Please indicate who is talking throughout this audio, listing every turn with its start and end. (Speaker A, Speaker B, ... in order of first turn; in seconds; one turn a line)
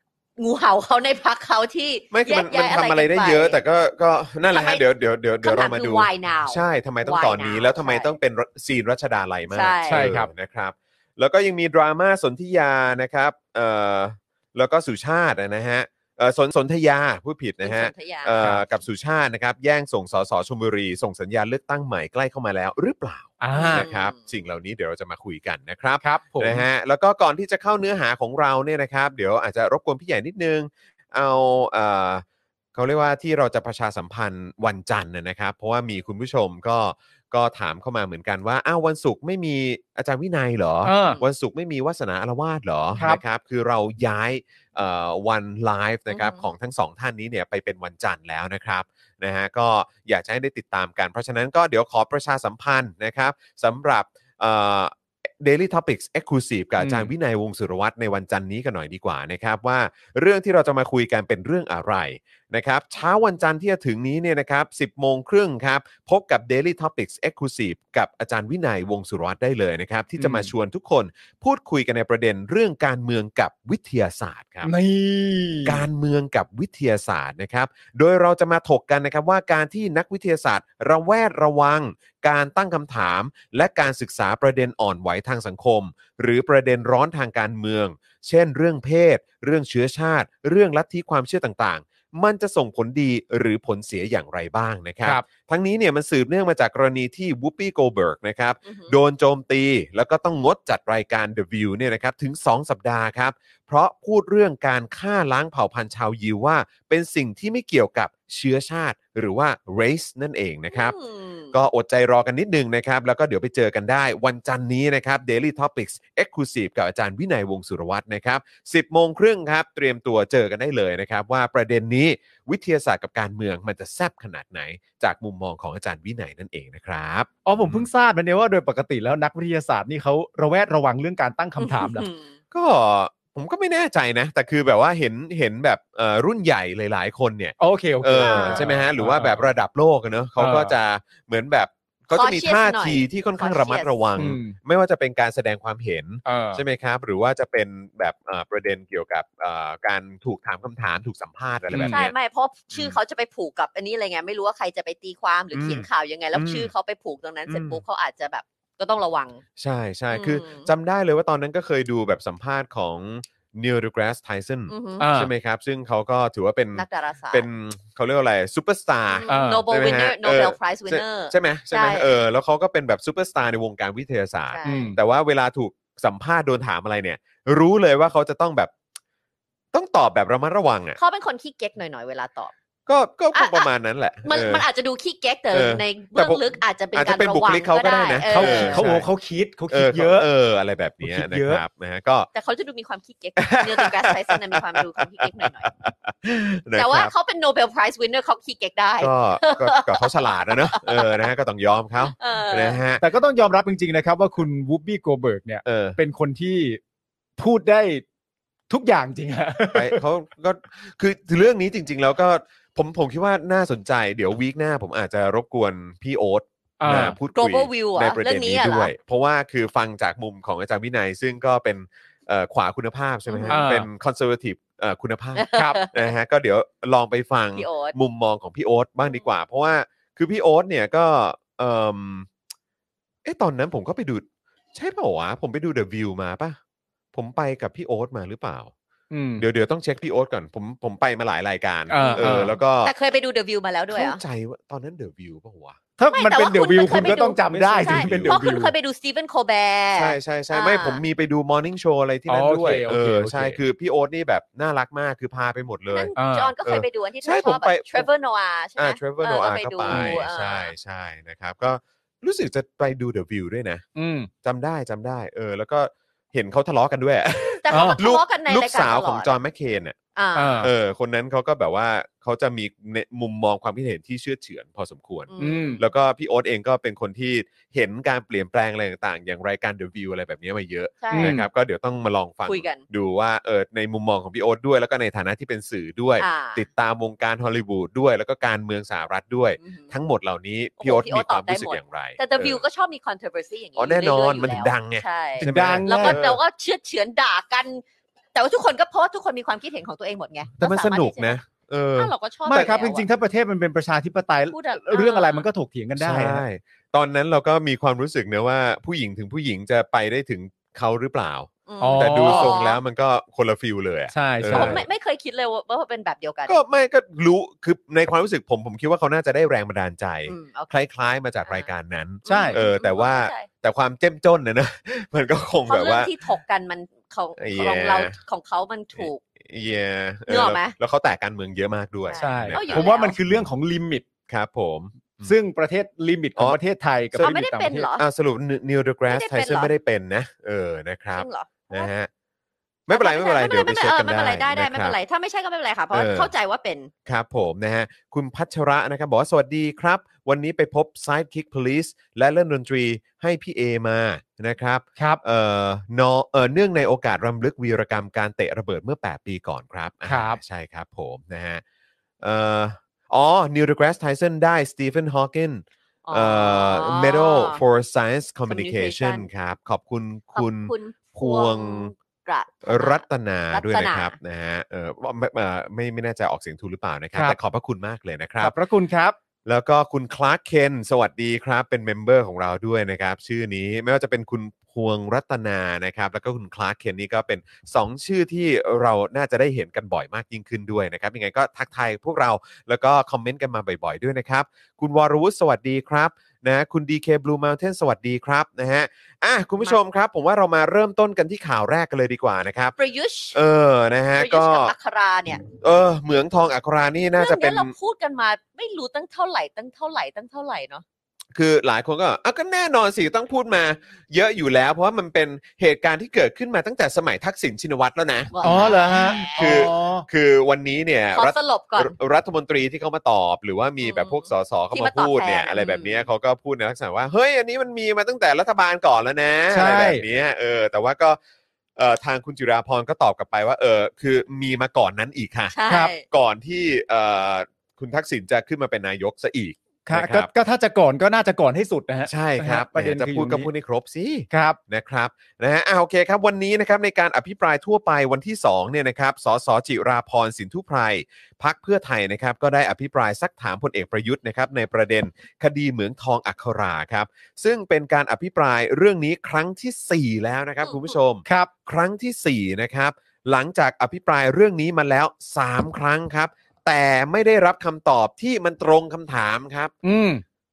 Speaker A: 0.4-3.6
Speaker B: 2.1-74.7
Speaker A: 4.5-4.8
Speaker A: 5.4-8.1
Speaker A: 9.5-10.1
Speaker C: 9.9-10.3
Speaker A: 17.6-18.3
Speaker C: 23.4-23.9
Speaker A: 23.5-24.2
Speaker C: 26.0-26.6
Speaker C: 40.8-41.2
Speaker C: 43.0-43.2
Speaker A: 46.1-46.5
Speaker C: 56.8-57.1
Speaker C: 70.2-70.5
Speaker C: 74.6-75.8
Speaker B: 75.6-111.0
Speaker A: 98.6-98.9
Speaker A: 110.7-111.5
Speaker B: 111.5-127.9
Speaker C: 127.5-132.1
Speaker A: 131.6-132.3
Speaker B: 132.5-152.1
Speaker C: 137.6-139.5
Speaker A: 138.2-138.7
Speaker C: 140.4-140.7
Speaker A: 142.1-143.9
Speaker C: 144.2-144.6
Speaker C: 146.2-146.6
Speaker C: 151.7-152.0
Speaker A: 151.9-159.4
Speaker B: 152.7-153.0
Speaker B: 155.5-156.7
Speaker B: 157.5-157.8
Speaker B: 159.6-178.7
Speaker A: 160.1-160.7
Speaker A: 164.7-165.1
Speaker C: 165.0-165.3
Speaker A: 166.7-167.4
Speaker A: 169.1-172.1
Speaker C: 169.3-169.7
Speaker A: 174.5-174.9
Speaker C: 174.6-175.0
Speaker B: 179.7-181.0
Speaker A: 181.0-182.5
Speaker B: 182.9-184.6
Speaker A: 183.3-183.7
Speaker A: 184.2-188.8
Speaker B: 185.5-189.1
Speaker C: 188.3-190.3
Speaker B: 189.7-192.3
Speaker C: 191.0-191.6
Speaker A: 192.3-195.7
Speaker B: 193.4-197.1
Speaker A: 196.8-201.3
Speaker B: 199.0-203.0
Speaker A: 202.0-202.8
Speaker C: 203.0-206.8
Speaker B: 205.6-206.0
Speaker C: 207.4-208.0
Speaker C: 208.7-210.0
Speaker B: 209.7-232.3
Speaker C: 216.8-217.2
Speaker A: 217.3-218.9
Speaker A: 223.3-223.6
Speaker C: 223.5-223.9
Speaker A: 225.4-226.1
Speaker C: 225.5-225.8
Speaker A: 227.6-227.9
Speaker B: 233.2-236.6
Speaker B: 237.1-238.7
Speaker C: 239.1-239.4
Speaker B: 239.4-242.9
Speaker C: 241.9-242.6
Speaker A: 241.9-244.2
Speaker B: 243.9-245.8
Speaker C: 246.0-248.7
Speaker A: 246.1-251.0
Speaker B: 246.9-248.4
Speaker B: 249.9-256.1
Speaker C: 252.3-253.6
Speaker A: 255.9-260.7
Speaker C: 256.1-256.5
Speaker B: 256.6-258.1
Speaker B: 258.8-263.8
Speaker C: 259.9-260.2
Speaker C: 263.9-264.3
Speaker B: 264.4-270.0
Speaker A: 267.6-269.3
Speaker C: 267.7-268.0
Speaker A: 270.1-270.7
Speaker C: 270.4-270.7
Speaker B: 270.6-292.6
Speaker A: 275.3-275.9
Speaker C: 275.4-275.8
Speaker A: 281.0-281.4
Speaker C: 281.1-281.5
Speaker A: 282.5-282.8
Speaker A: 286.2-286.6
Speaker A: 289.6-289.9
Speaker A: 290.8-297.8
Speaker B: 293.8-296.4
Speaker C: 295.4-296.2
Speaker A: 298.4-301.4
Speaker B: 300.6-302.1
Speaker A: 301.9-303.1
Speaker C: 302.4-306.4
Speaker A: 304.5-305.5
Speaker B: 306.0-314.9
Speaker A: 311.7-312.8
Speaker C: 311.8-312.6
Speaker C: 314.1-314.8
Speaker A: 314.5-316.6
Speaker B: 316.5-326.1
Speaker A: 320.3-320.7
Speaker A: 321.4-321.7
Speaker A: 322.2-323.5
Speaker C: 322.3-322.6
Speaker A: 325.7-329.2
Speaker B: 327.4-328.1
Speaker B: 329.0-333.4
Speaker A: 330.3-330.7
Speaker A: 332.1-333.1
Speaker C: 332.2-334.1
Speaker B: 334.3-335.4
Speaker C: 335.2-337.9
Speaker A: 337.2-338.1
Speaker B: 338.0-342.1
Speaker A: 339.1-339.7
Speaker A: 341.1-341.9
Speaker B: 342.9-344.9
Speaker A: 342.9-346.9
Speaker B: 345.9-346.3
Speaker B: 347.1-361.6
Speaker C: 360.1-360.4
Speaker B: 362.2-371.9
Speaker A: 366.1-367.6
Speaker A: 368.5-369.3
Speaker A: 370.4-374.1
Speaker B: 372.6-378.6
Speaker C: 378.4-379.2
Speaker B: 379.4-402.7
Speaker A: 402.8-403.4
Speaker B: 403.3-404.7
Speaker A: 404.2-405.4
Speaker B: 405.4-407.7
Speaker A: 407.1-410.8
Speaker B: 411.3-431.2
Speaker A: 418.3-419.6
Speaker C: 418.4-420.1
Speaker A: 421.1-421.9
Speaker A: 423.8-426.1
Speaker C: 429.5-430.0
Speaker B: 431.8-440.3
Speaker A: 435.5-436.0
Speaker C: 435.7-435.9
Speaker C: 439.9-443.5
Speaker B: 442.1-469.7
Speaker C: 444.3-444.6
Speaker A: 460.6-460.9
Speaker C: 469.8-470.2